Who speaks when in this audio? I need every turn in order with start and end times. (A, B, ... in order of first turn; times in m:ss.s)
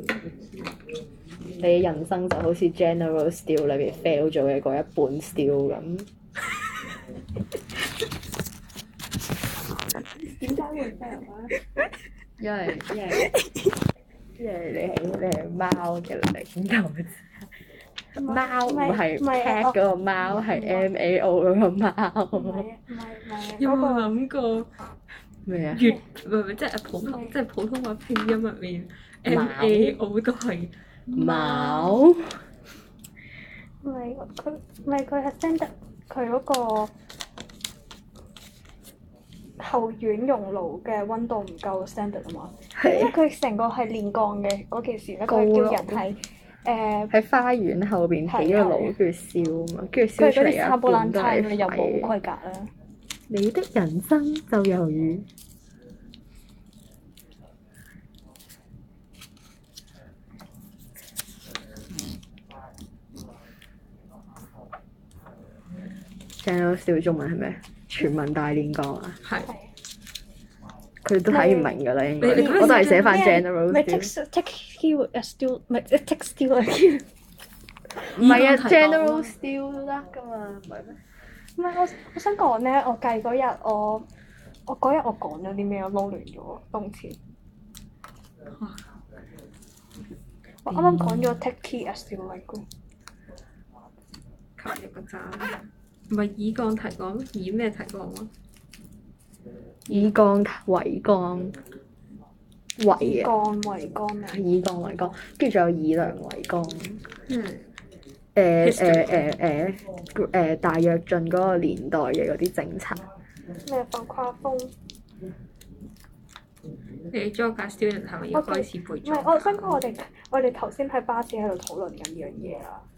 0:01.6-0:06.1 A
0:10.2-0:11.8 B
0:12.4-0:13.3 A
0:13.1-0:13.7 B
0:14.4-0:17.5 A
0:18.2-0:20.9 B
0:18.2-0:22.7 A
0:22.3-0:24.1 B
0:23.6-0:24.7 C
0:25.5-0:25.9 A
0:25.7-0:31.4 C
0:27.1-0:27.3 B
0:29.3-0:30.0 A
0:31.1-0:32.4 A
0:33.8-0:36.9 B
0:39.6-0:47.1 B
0:42.8-0:43.2 A
0:45.3-0:46.1 A
0:47.1-0:52.1 A
0:48.3-0:49.0 B
0:50.2-0:52.7 B
0:53.3-0:55.3 A
1:06.4-1:09.2 A
1:09.2-1:09.5 C
1:11.0-1:14.1 A
1:11.3-1:17.0 B
1:12.2-1:13.2 C
1:18.0-1:21.0 A
1:18.1-1:19.3 C
1:21.6-1:24.1 B
1:24.7-1:27.2 B
1:28.5-1:28.8 C
1:30.6-1:32.6 B
1:30.7-1:31.2 C
1:34.6-1:35.6 C
1:36.1-1:38.3 C
1:39.9-1:41.6 A
1:42.8-1:43.3 A
1:42.9-1:44.4 B
1:44.3-1:47.0 A
1:47.3-1:47.7 C
1:48.4-1:53.1 A
1:48.6-1:49.3 C
1:53.7-1:54.7 B
1:57.1-1:59.8 C
1:58.3-2:02.8 B